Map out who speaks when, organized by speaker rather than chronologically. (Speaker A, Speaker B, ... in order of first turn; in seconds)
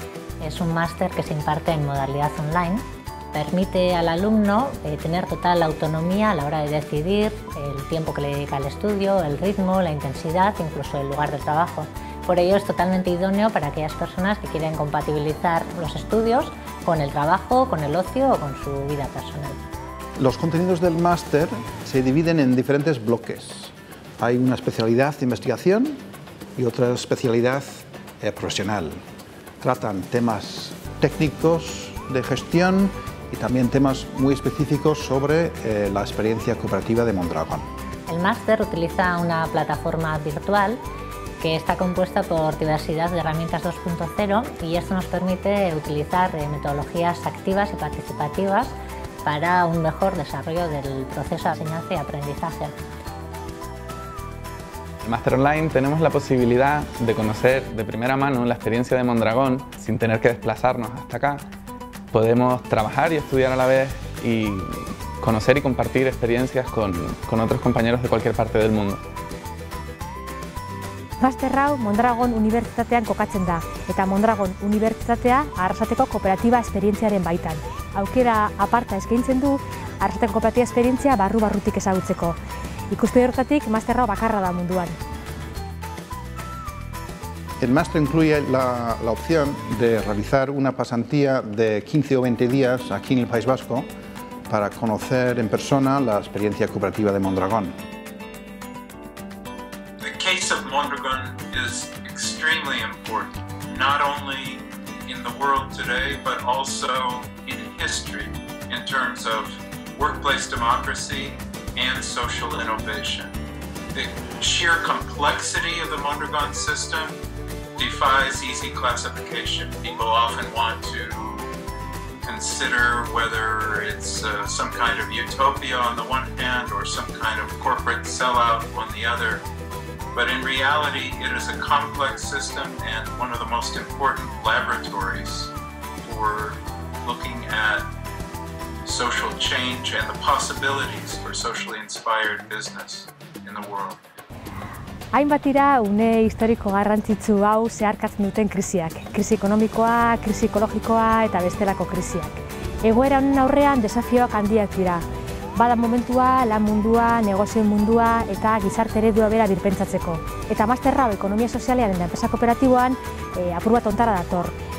Speaker A: 0.4-19.6, 38.1-40.8, 41.4-48.7, 49.3-52.7
Speaker B: 20.2-26.0, 26.6-29.0, 29.6-37.7, 87.6-93.9, 94.5-97.7
Speaker C: 55.0-61.5, 62.1-69.0
Speaker D: 71.2-82.4, 82.9-85.0, 145.1-155.0, 155.6-164.5
Speaker E: 100.0-113.3, 113.9-117.2, 117.8-121.5, 122.2-129.4, 130.1-135.5, 136.0-137.9, 138.8-144.0